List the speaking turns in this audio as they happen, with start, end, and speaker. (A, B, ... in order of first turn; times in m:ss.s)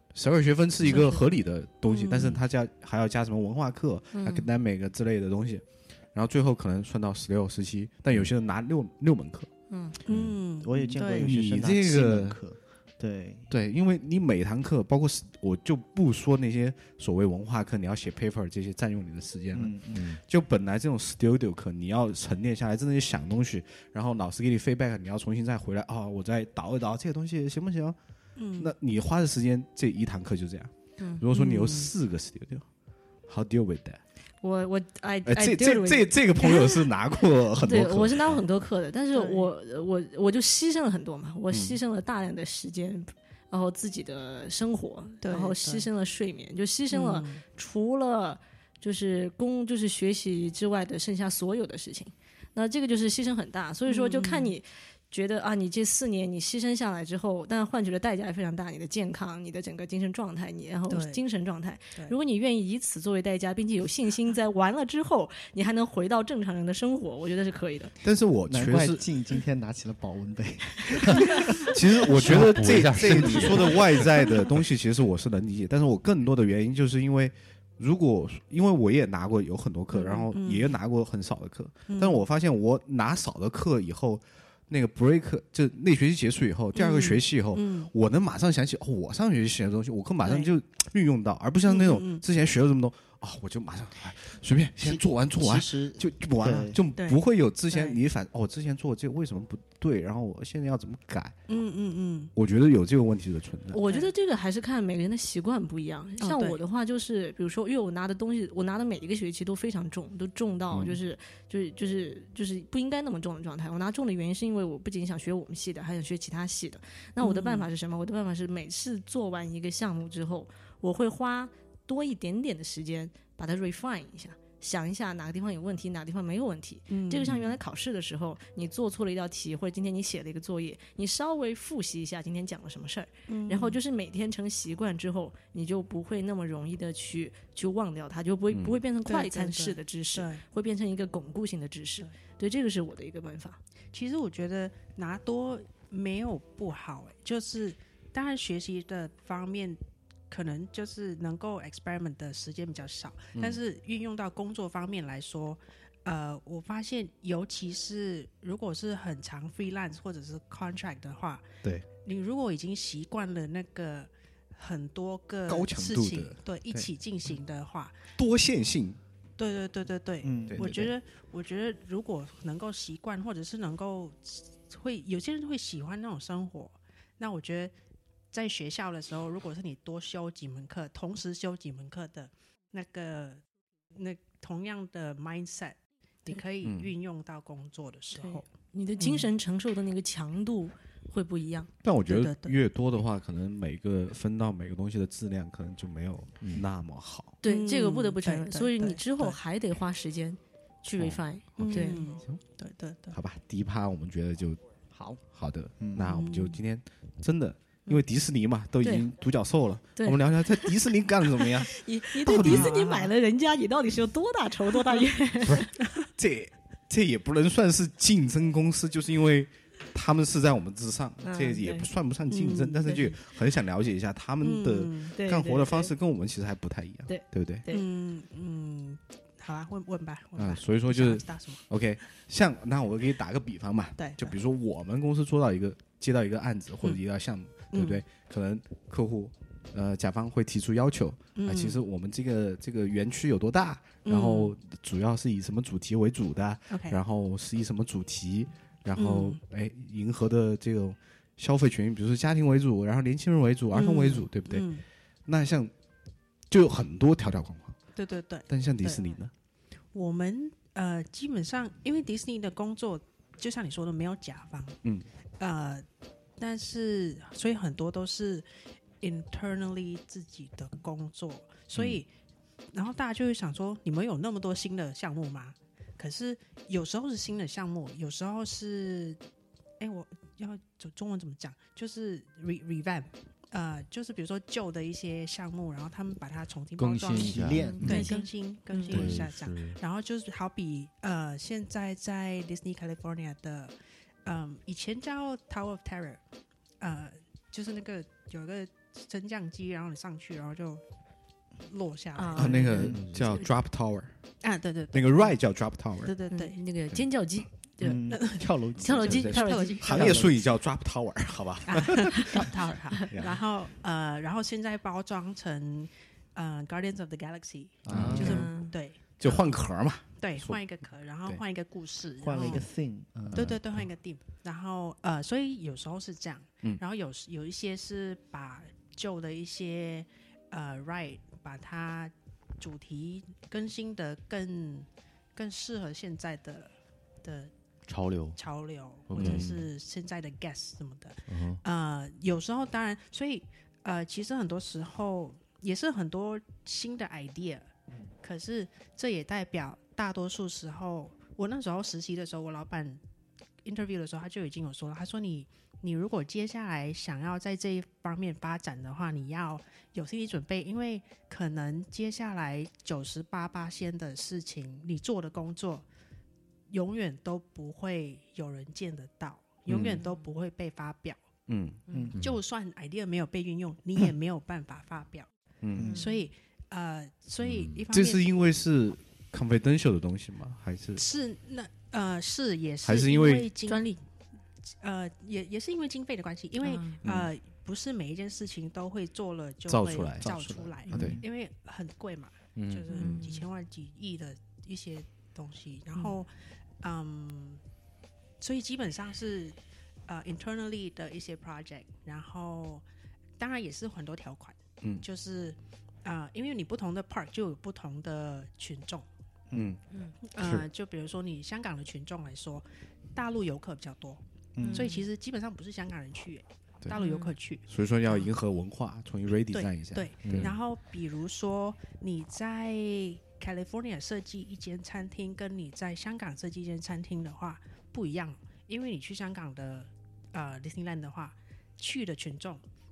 0:00.1-0:09.5 A
0:00.8-0:01.2 B
0:01.9-0:02.4 C
0:04.1-0:04.5 B
0:09.7-0:10.0 B
0:10.1-0:11.3 C
0:10.1-0:10.3 D
0:10.6-0:13.5 E
0:11.1-0:12.4 A
0:13.5-0:28.0 A
0:19.5-0:20.2 E
0:19.9-0:20.2 D
0:28.4-0:28.7 C
0:28.6-0:32.7 A
0:31.0-0:31.2 B
0:31.3-0:31.9 C
0:33.3-0:34.0 A
0:34.4-0:36.9 B
0:35.3-0:38.4 A
0:37.6-1:08.0 B
0:39.1-0:39.5 C
0:41.5-0:41.8 A
0:45.2-0:45.9 C
0:46.9-0:47.4 C
0:53.9-0:54.5 C
1:00.9-1:01.2 C
1:08.0-1:09.0 A
1:08.5-1:12.6 E
1:11.6-1:41.4 A
1:12.1-1:14.1 D
1:19.9-1:20.8 C
1:21.9-1:22.3 C
1:26.8-1:27.9 C
1:30.2-1:30.5 C
1:31.7-1:32.2 C
1:34.8-1:36.8 E
1:37.0-1:38.0 C
1:41.5-1:42.3 C
1:42.4-1:43.8 A
1:43.7-2:23.6 B
1:43.9-1:44.1 C
1:46.2-1:46.6 C
1:50.7-1:51.0 A
1:57.2-1:57.7 C
2:06.9-2:07.4 C
2:13.3-2:13.8 C
2:18.5-2:18.8 A
2:19.0-2:20.4 C
2:23.9-2:48.0 C
2:33.4-2:33.6 A
2:45.5-2:46.9 A
2:48.2-2:49.0 A
2:49.4-2:57.7 C
2:50.2-2:50.8 E
2:50.5-2:50.9 A
2:58.3-3:03.4 C
3:03.9-3:08.5 C
3:06.6-3:06.9 A
3:08.1-3:11.7 B
3:09.0-3:09.3 C
3:11.8-3:17.4 A
3:12.1-3:12.6 C
3:16.4-3:16.7 D
3:17.4-3:22.1 B
3:17.4-3:19.4 C
3:21.6-3:22.4 A
3:21.6-3:23.2 C
3:23.1-3:24.6 A
3:24.9-3:25.2 B
3:25.3-3:32.8 A
3:25.8-3:26.1 E
3:26.0-3:26.6 C
3:28.8-3:29.1 B
3:30.0-3:30.8 B
3:31.4-3:35.7 B
3:32.4-3:33.1 C
3:36.2-3:47.7 A
3:41.2-3:41.9 B
3:42.3-3:43.1 C
3:44.4-3:45.1 C
3:45.1-3:45.9 B
3:47.1-3:47.9 B
3:47.7-3:51.6 C
3:50.4-4:14.7 A
3:54.0-3:54.4 C
3:57.7-3:58.0 C
4:01.4-4:01.8 C
4:04.0-4:04.6 C
4:06.7-4:07.0 C
4:09.0-4:09.4 C
4:13.7-4:14.8 C
4:15.3-4:15.7 A
4:16.5-4:17.8 A
4:18.0-4:19.0 C
4:18.5-4:19.3 A
4:19.9-4:24.8 C
4:25.4-4:25.9 C
4:26.4-4:28.5 C
4:29.0-4:32.1 C
4:31.8-4:32.0 A
4:32.7-4:39.2 C
4:39.8-4:53.7 C
4:46.8-4:47.9 D
4:47.2-4:48.0 E
4:47.6-4:49.1 B
4:48.9-4:49.8 D
4:54.2-4:56.2 C
4:56.8-5:00.8 C
5:01.7-5:02.7 C
5:02.2-5:03.4 B
5:02.4-5:04.1 A
5:02.4-5:03.1 E
5:02.7-5:03.4 D
5:04.4-5:05.4 C
5:04.9-5:06.2 A
5:06.0-5:06.6 C
5:06.3-5:10.2 B
5:07.8-5:10.4 E
5:08.1-5:08.4 C
5:09.0-5:12.5 A
5:09.1-5:10.4 C
5:11.7-5:19.6 C
5:13.1-5:13.4 A
5:17.8-5:18.5 E
5:17.9-5:18.5 A
5:18.2-5:18.8 B
5:19.2-5:20.6 A
5:20.2-5:22.7 C
5:22.2-5:23.6 E
5:23.3-5:36.7 C
5:37.2-5:37.5 C
5:37.9-5:38.4 D
5:38.4-5:47.7 C
5:39.1-5:39.7 D
5:39.2-5:39.5 A
5:41.3-5:41.6 D
5:48.2-5:53.0 C
5:53.6-6:05.9 C
6:06.7-6:11.2 C
6:09.7-6:10.0 A
6:11.5-6:11.8 A
6:11.9-6:12.2 B
6:12.2-6:12.4 D
6:12.2-6:15.3 C
6:15.6-6:16.0 A
6:15.8-6:16.3 B
6:15.9-6:18.3 C
6:17.4-6:17.8 D
6:17.9-6:21.0 A
6:21.0-6:23.9 C
6:22.8-6:23.5 A
6:23.6-6:24.0 B
6:24.8-6:36.3 C
6:26.6-6:27.0 B
6:27.0-6:27.3 A
6:29.7-6:31.2 A
6:30.2-6:31.2 E
6:30.9-6:31.2 D
6:32.6-6:33.2 D
6:32.9-6:33.5 B
6:36.8-6:37.6 C
6:38.4-6:42.8 C
6:43.4-6:49.1 C
6:49.5-6:49.8 A
6:49.9-6:50.2 B
6:50.2-6:54.2 C
6:50.4-6:50.6 A
6:54.6-6:54.9 E
6:54.6-6:55.1 B
6:54.7-6:58.3 C
6:56.9-6:57.4 B
6:57.7-7:00.6 A
6:59.5-7:12.6 C
7:00.2-7:00.5 D